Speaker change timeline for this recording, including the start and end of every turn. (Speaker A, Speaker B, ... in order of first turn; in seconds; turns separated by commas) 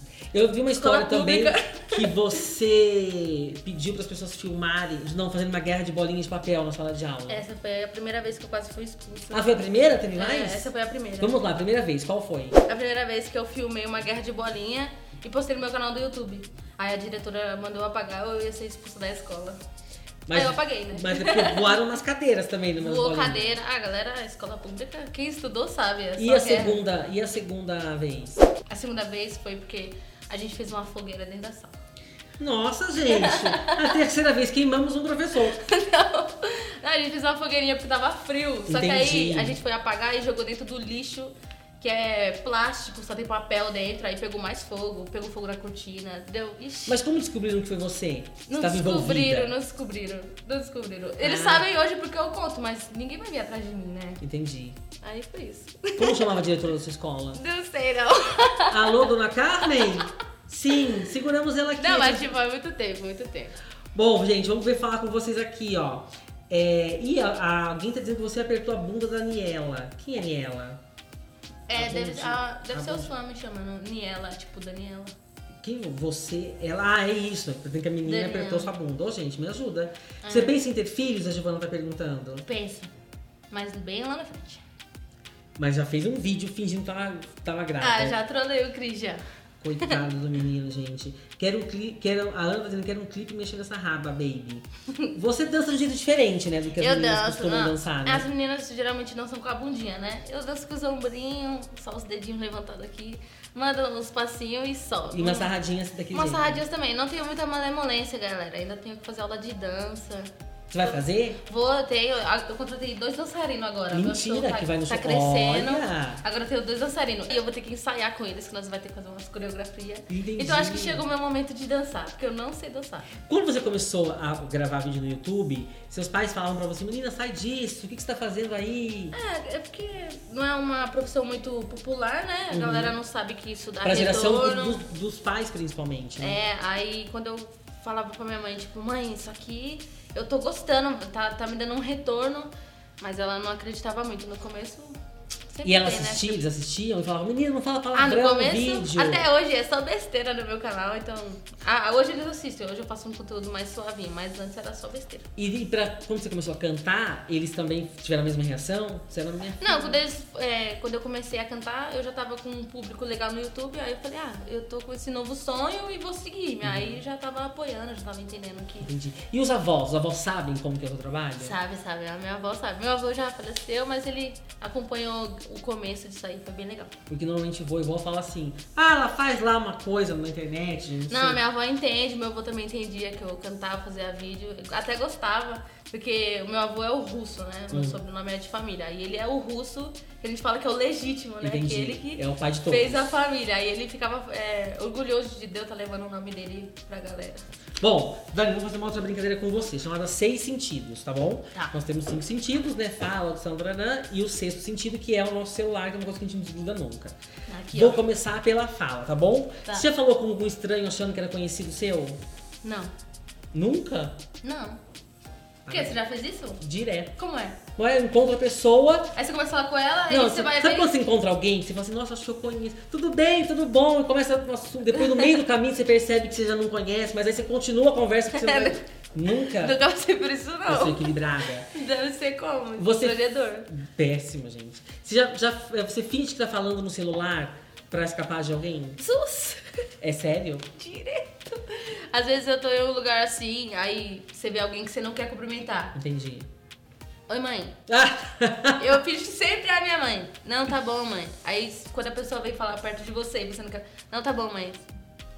Speaker A: 0.3-7.4, Speaker B: 0.7-2.1, Speaker B: 7.3-9.6, Speaker A: 9.3-12.6, Speaker B: 10.1-11.4, Speaker B: 12.7-19.6, Speaker A: 20.3-23.4, Speaker B: 20.3-21.8, Speaker B: 22.8-26.8, Speaker A: 26.2-28.5, Speaker B: 28.7-31.8, Speaker A: 32.4-35.6, Speaker B: 33.1-34.0, Speaker B: 35.5-47.0, Speaker A: 38.7-39.6, Speaker A: 46.9-49.5, Speaker B: 48.5-54.2, Speaker A: 51.2-51.6, Speaker A: 54.2-54.8, Speaker B: 55.0-56.3, Speaker A: 56.0-57.4, Speaker B: 57.3-59.1, Speaker A: 58.7-62.3, Speaker B: 59.6-59.9, Speaker B: 61.8-63.5, Speaker A: 63.9-70.8, Speaker B: 71.7-75.1, Speaker A: 71.7-73.1, Speaker A: 75.6-82.5, Speaker B: 78.0-78.7, Speaker B: 80.2-80.6, Speaker B: 82.4-82.9, Speaker B: 83.5-84.6, Speaker A: 85.6-88.2, Speaker B: 87.8-89.2, Speaker A: 89.6-98.3, Speaker B: 96.8-105.5, Speaker A: 105.1-106.6, Speaker B: 106.1-110.3, Speaker A: 110.7-111.4, Speaker B: 110.8-123.1, Speaker A: 113.9-116.2, Speaker A: 120.1-121.0, Speaker A: 123.2-129.2, Speaker B: 129.1-134.8, Speaker A: 132.5-133.0, Speaker A: 133.8-136.4, Speaker B: 136.2-145.0, Speaker B: 145.5-146.4, Speaker A: 145.6-149.3, Speaker B: 147.9-155.3, Speaker A: 155.3-160.0, Speaker B: 159.6-168.9, Speaker A: 166.6-167.0, Speaker A: 168.8-171.6, Speaker B: 171.4-176.9, Speaker A: 177.1-181.4, Speaker B: 181.1-197.4, Speaker A: 187.7-188.0, Speaker A: 191.4-193.1, Speaker A: 197.8-207.2, Speaker B: 207.5-208.0, Speaker A: 207.7-212.2, Speaker B: 212.6-212.9, Speaker A: 213.5-214.2, Speaker B: 214.4-214.8, Speaker A: 215.6-216.0, Speaker B: 215.7-216.6, Speaker A: 216.6-217.1, Speaker B: 217.2-217.6, Speaker A: 217.8-219.1, Speaker B: 219.1-220.9, Speaker A: 220.1-229.8, Speaker B: 228.3-228.8, Speaker B: 229.4-231.2, Speaker A: 230.7-231.7, Speaker B: 231.7-233.7, Speaker A: 232.8-239.0, Speaker B: 239.0-239.8, Speaker A: 240.0-240.7, Speaker B: 240.8-245.9, Speaker A: 245.9-246.5, Speaker B: 247.3-247.8, Speaker A: 247.9-248.9, Speaker B: 248.8-254.8